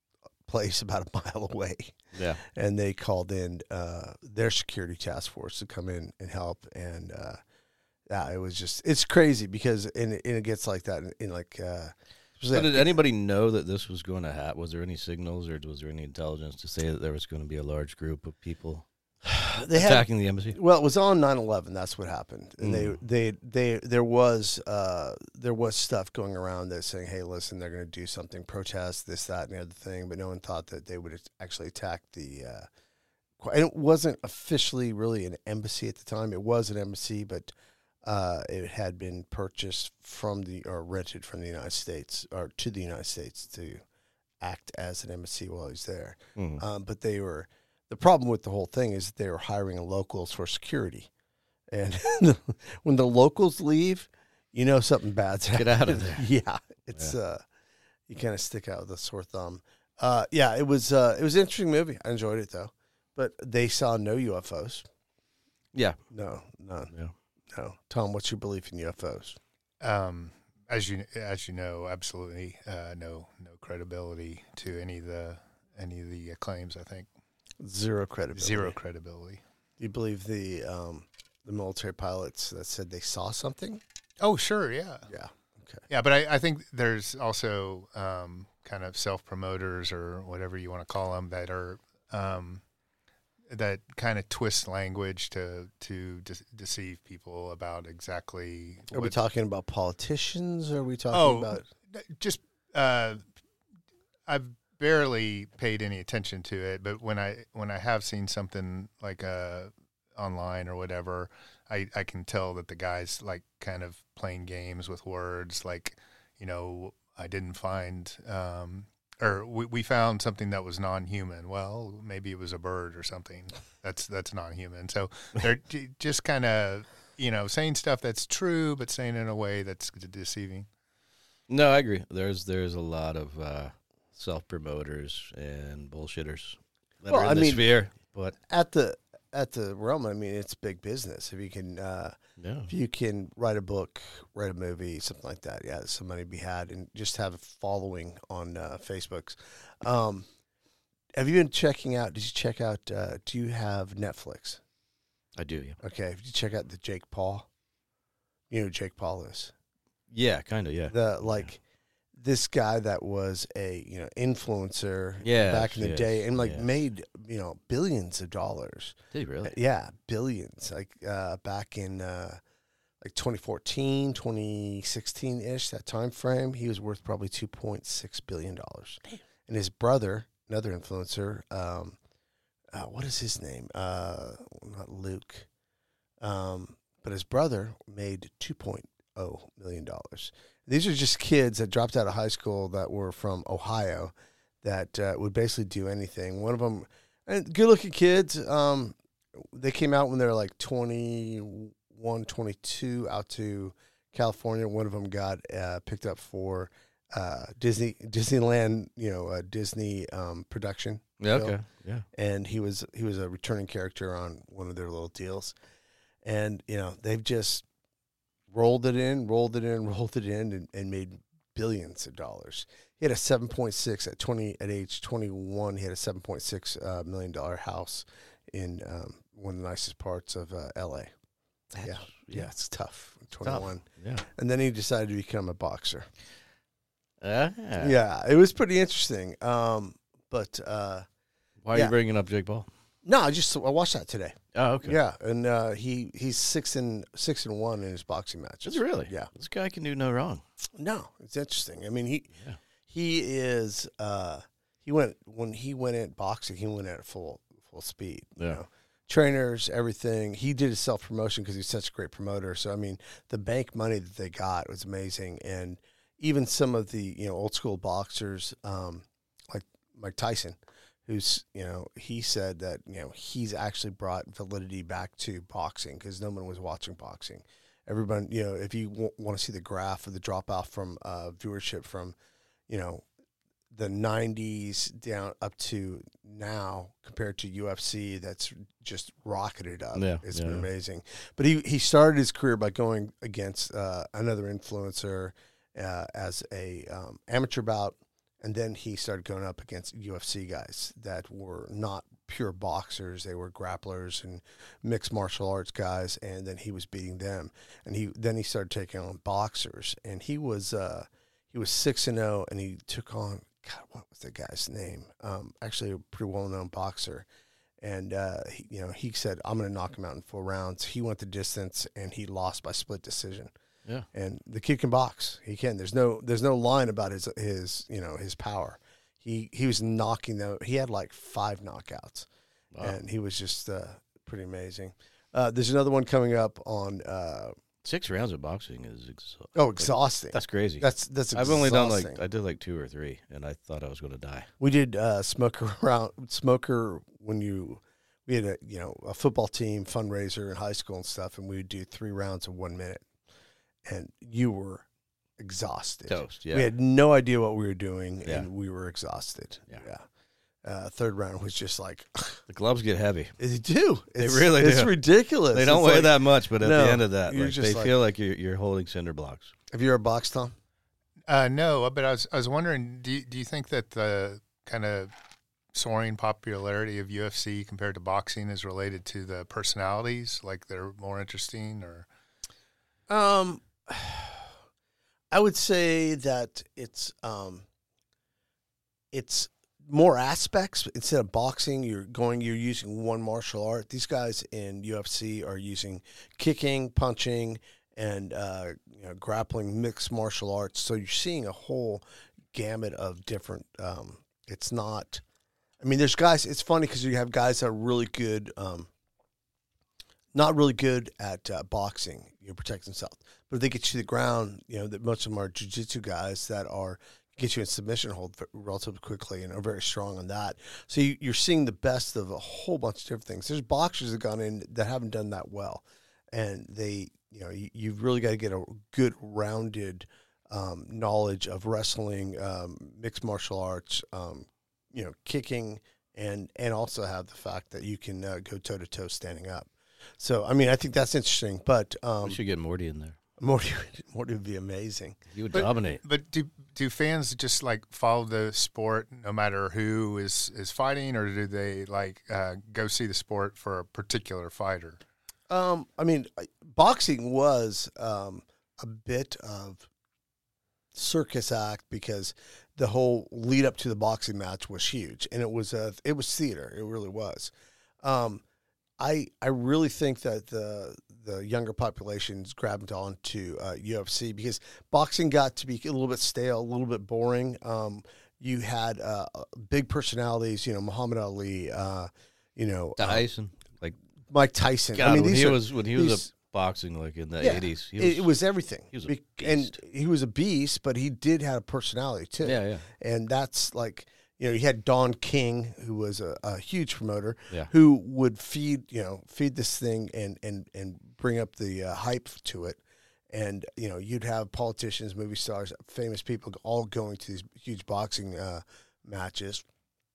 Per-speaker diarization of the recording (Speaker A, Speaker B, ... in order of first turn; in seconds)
Speaker A: 0.5-7.4, 8.1-13.0, 19.2-32.7, 33.4-37.5, 38.0-43.8, 44.4-51.1, 51.7-57.4, 58.1-64.8, 66.1-66.9, 67.5-69.4, 77.6-78.8, 79.8-83.8, 85.1-85.8, 98.9-101.6, 137.1-137.7, 138.5-142.2, 142.7-150.3, 151.1-154.6, 155.8-157.5, 158.5-159.5, 160.9-161.6, 162.1-172.4, 173.0-182.0, 182.7-185.5, 186.2-211.6, 212.1-215.6, 216.2-217.6, 218.5-231.1, 231.8-236.1, 237.8-241.1, 243.0-249.3, 250.8-252.3, 252.9-282.1, 282.7-283.0, 283.7-317.2, 317.8-323.5, 324.1-332.3, 332.8-337.6, 339.5-342.2, 344.6-353.0, 353.8-354.8, 355.4-360.0, 360.6-362.4, 363.4-367.9, 369.7-370.5, 383.1-384.5, 385.3-387.6, 389.1-405.2, 405.8-408.9, 410.3-442.4, 443.4-445.2, 455.5-459.9, 460.9-468.4, 469.0-483.2, 484.3-486.3, 487.4-509.6
Speaker B: 2.1-2.4, 12.5-18.9, 19.7-20.6, 22.6-23.0, 46.4-46.6, 55.5-56.3, 131.5-138.3, 142.4-142.7, 155.4-155.8, 160.1-161.5, 165.2-166.7, 169.1-169.6, 211.2-212.1, 231.7-232.5, 233.4-234.2, 237.2-238.0, 241.6-242.7, 244.5-245.0, 248.6-250.4, 289.9-290.7, 337.8-344.5, 356.1-356.7, 362.5-363.3, 364.2-364.9, 365.5-369.5, 442.2-443.2, 445.3-446.0, 483.0-483.9, 484.9-488.4, 488.9-489.8, 492.4-492.9
Speaker C: 69.8-77.1, 78.3-79.4, 84.2-85.1, 85.9-92.6, 93.5-99.2, 101.1-103.2, 104.3-130.7, 371.3-375.1, 375.7-382.1, 445.5-455.0